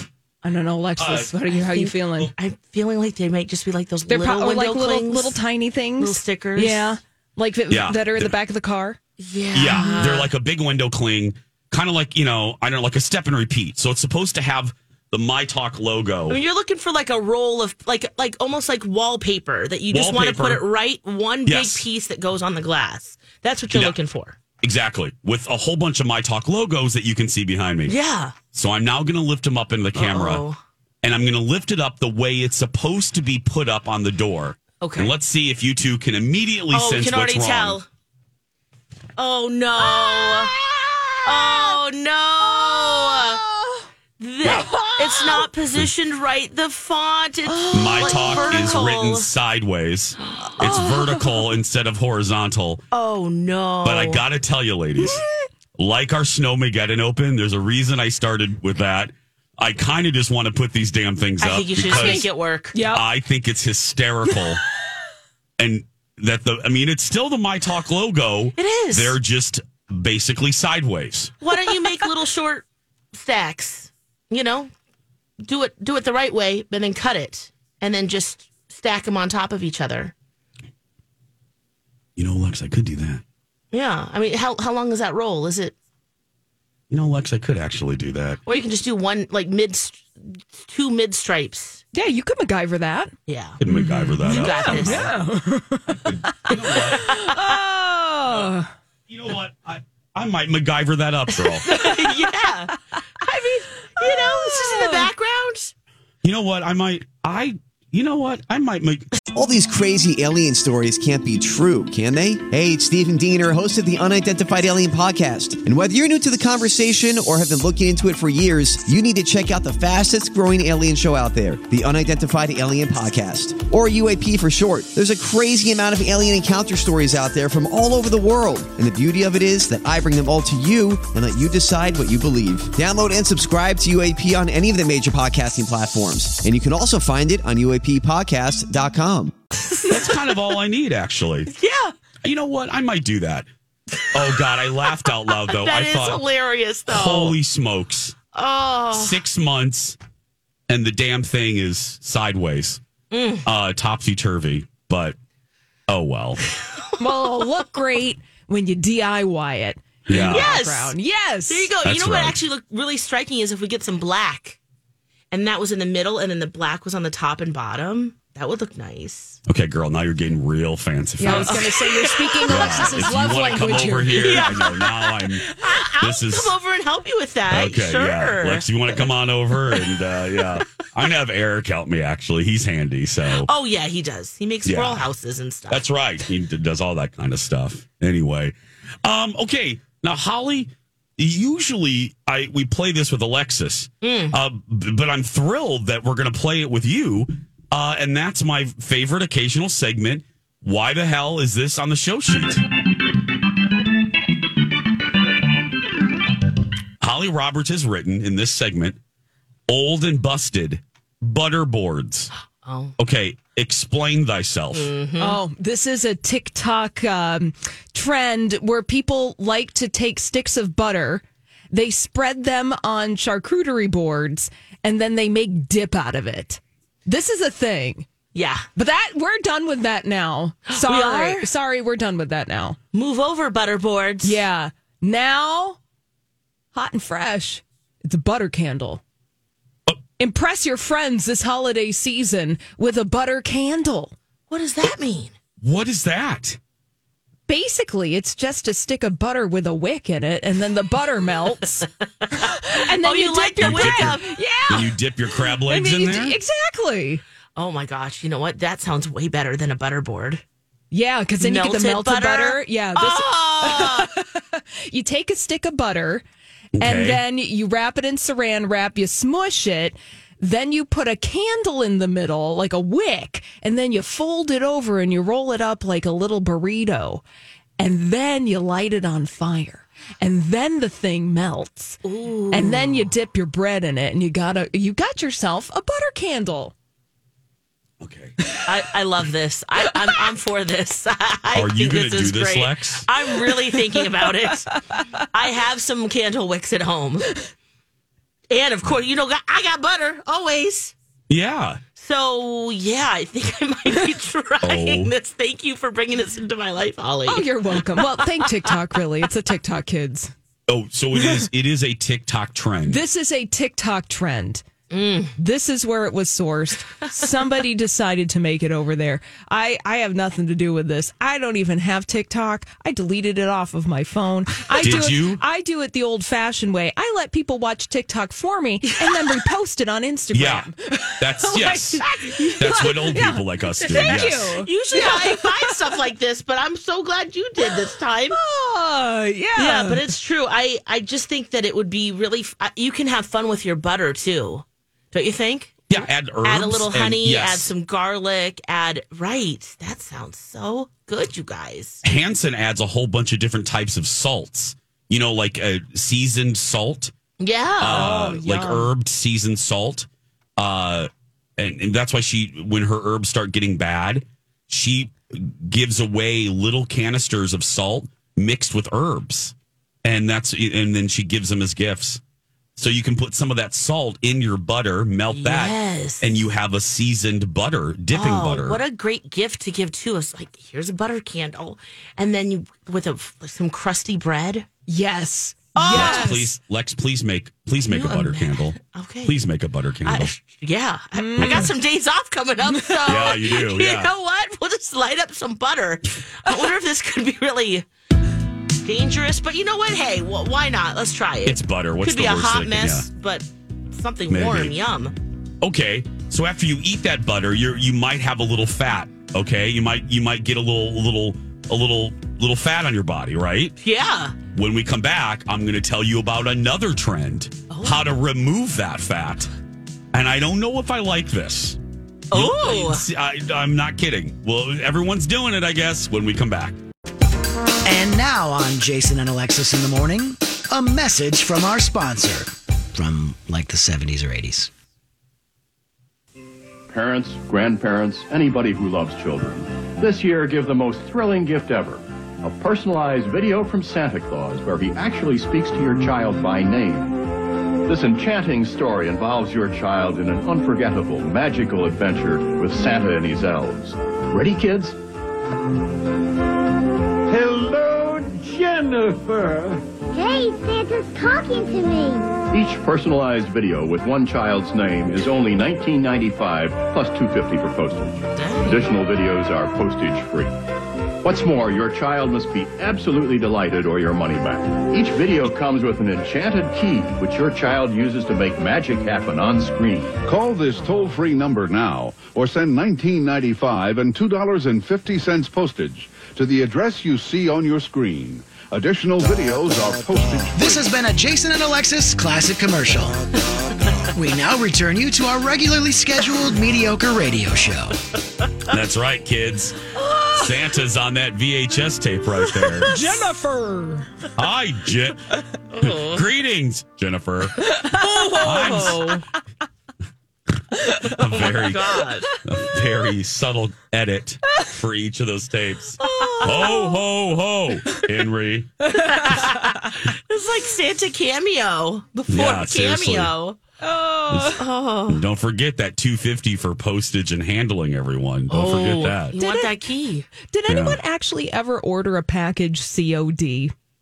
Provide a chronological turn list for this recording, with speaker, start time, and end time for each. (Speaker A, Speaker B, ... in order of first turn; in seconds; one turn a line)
Speaker A: 0.4-2.3
Speaker B: 1.0-1.3
Speaker C: 1.6-5.4
Speaker A: 4.1-9.0
Speaker C: 6.0-7.0
Speaker B: 7.7-8.3
Speaker C: 9.2-10.3
Speaker B: 9.5-16.4
Speaker A: 9.7-10.1
Speaker C: 16.3-24.4
Speaker B: 19.9-20.6
Speaker B: 21.5-21.8
Speaker B: 23.7-24.0
Speaker B: 24.6-27.9
Speaker C: 27.9-28.4
Speaker B: 28.5-30.4
Speaker C: 29.9-30.6
Speaker B: 31.0-37.8
Speaker C: 34.8-35.1
Speaker C: 36.7-37.9
Speaker C: 39.2-40.5
Speaker A: 39.9-41.8
Speaker C: 41.2-43.4
Speaker A: 42.8-43.9
Speaker C: 44.2-49.3
Speaker B: 44.4-44.7
Speaker A: 44.5-45.5
Speaker A: 47.5-48.4
Speaker B: 47.7-52.8
Speaker A: 50.6-51.4
Speaker C: 52.9-54.2
Speaker B: 53.8-55.2
Speaker A: 55.0-55.5
Speaker B: 55.8-62.3
Speaker C: 61.4-62.8
Speaker A: 61.9-63.1
Speaker B: 62.8-64.6
Speaker B: 65.6-71.3
Speaker C: 68.6-69.2
Speaker C: 71.4-74.7
Speaker C: 75.4-80.1
Speaker B: 82.2-83.2
Speaker C: 83.7-85.8
Speaker B: 86.9-88.4
Speaker C: 88.5-91.8
Speaker A: 91.9-93.1
Speaker C: 93.3-93.6
Speaker B: 93.6-95.1
Speaker A: 93.7-98.7
Speaker C: 94.2-95.1
Speaker B: 96.0-97.3
Speaker C: 97.1-97.4
Speaker B: 99.1-101.7
Speaker C: 101.3-105.7
Speaker A: 101.7-102.2
Speaker A: 104.0-105.1
Speaker B: 106.2-109.1
Speaker D: 109.3-139.3
Speaker C: 139.6-140.6
Speaker B: 139.9-141.5
Speaker C: 141.5-141.9
Speaker B: 142.2-143.5
Speaker B: 144.1-146.2
Speaker C: 144.2-147.4
Speaker B: 146.9-148.2
Speaker C: 148.3-149.2
Speaker B: 148.9-150.0
Speaker B: 150.7-152.8
Speaker C: 153.1-153.5
Speaker B: 153.4-155.2
Speaker B: 155.9-156.4
Speaker A: 157.0-161.7
Speaker B: 160.1-160.6
Speaker C: 160.1-160.9
Speaker C: 161.5-164.6
Speaker B: 161.8-162.4
Speaker C: 165.3-169.4
Speaker B: 169.5-171.9
Speaker A: 171.2-174.6
Speaker C: 171.3-179.1
Speaker B: 172.4-176.6
Speaker B: 177.5-183.5
Speaker C: 179.7-180.6
Speaker C: 183.3-185.9
Speaker B: 184.7-185.1
Speaker B: 185.7-202.6
Speaker C: 194.0-194.4
Speaker B: 207.0-209.0
Speaker B: 209.7-212.3
Speaker C: 212.6-212.9
Speaker B: 213.0-214.9
Speaker C: 214.7-215.4
Speaker A: 215.2-228.1
Speaker C: 228.3-228.7
Speaker A: 228.8-232.8
Speaker C: 230.7-231.5
Speaker C: 232.9-234.4
Speaker A: 234.2-235.8
Speaker A: 236.7-239.0
Speaker A: 240.2-244.1
Speaker C: 244.5-245.3
Speaker B: 245.6-246.6
Speaker A: 247.5-254.9
Speaker C: 253.0-254.3
Speaker B: 253.6-256.4
Speaker A: 255.7-257.2
Speaker C: 257.6-260.4
Speaker A: 260.9-266.2
Speaker C: 261.4-264.1
Speaker B: 266.8-267.2
Speaker A: 266.8-277.2
Speaker A: 277.8-282.0
Speaker C: 282.0-283.1
Speaker A: 282.5-286.7
Speaker B: 288.0-288.4
Speaker C: 288.6-294.7
Speaker B: 291.5-293.1
Speaker C: 295.3-297.3
Speaker C: 298.5-300.9
Speaker B: 301.3-301.8
Speaker C: 302.0-308.7
Speaker B: 304.6-305.1
Speaker A: 307.3-310.3
Speaker B: 310.7-313.0
Speaker A: 311.1-311.5
Speaker A: 312.9-314.6
Speaker C: 314.9-315.4
Speaker A: 315.4-335.8
Speaker B: 324.8-325.4
Speaker B: 330.3-332.1
Speaker B: 332.6-334.6
Speaker C: 333.9-338.4
Speaker A: 338.3-340.1
Speaker C: 339.6-352.0
Speaker B: 345.9-347.7
Speaker B: 352.0-357.1
Speaker C: 357.4-358.2
Speaker B: 357.8-372.2
Speaker A: 357.9-358.9
Speaker B: 372.8-378.8
Speaker C: 375.3-376.4
Speaker C: 378.1-384.7
Speaker A: 384.9-386.5
Speaker C: 385.8-386.5
Speaker B: 385.9-390.3
Speaker C: 387.9-389.4
Speaker C: 390.1-397.9
Speaker A: 391.1-391.7
Speaker B: 391.4-391.7
Speaker A: 392.7-393.1
Speaker B: 393.1-394.1
Speaker C: 398.8-405.1
Speaker B: 401.5-403.1
Speaker B: 404.3-404.7
Speaker B: 405.6-413.8
Speaker C: 413.8-414.4
Speaker B: 414.5-419.5
Speaker C: 417.7-418.1
Speaker B: 420.1-421.8
Speaker C: 422.3-423.0
Speaker B: 422.3-426.8
Speaker E: 427.9-434.7
Speaker F: 436.9-447.2
Speaker F: 447.9-455.0
Speaker F: 457.3-459.8
Speaker G: 458.1-458.4
Speaker H: 460.1-462.4
Speaker F: 462.5-470.5
Speaker C: 468.4-468.9
Speaker F: 471.2-480.2
Speaker G: 480.2-490.9
Speaker E: 490.6-493.2
Speaker E: 494.1-498.0
Speaker B: 498.7-499.8
Speaker A: 500.0-500.4
Speaker B: 500.4-503.0
Speaker A: 502.9-504.1
Speaker B: 504.4-505.2
Speaker C: 505.7-506.2
Speaker B: 505.8-507.7
Speaker A: 507.6-509.2
Speaker C: 507.9-509.2
Speaker B: 508.4-509.2
Speaker A: 510.8-511.2
Speaker B: 511.1-518.9
Speaker C: 511.2-512.3
Speaker A: 516.0-517.0
Speaker C: 516.1-516.8
Speaker A: 518.9-519.9
Speaker C: 518.9-523.6
Speaker B: 522.3-523.3
Speaker A: 523.8-524.6
Speaker B: 524.3-529.4
Speaker C: 524.6-525.2
Speaker C: 528.5-530.3
Speaker A: 529.4-529.7
Speaker A: 530.4-533.7
Speaker B: 530.7-531.0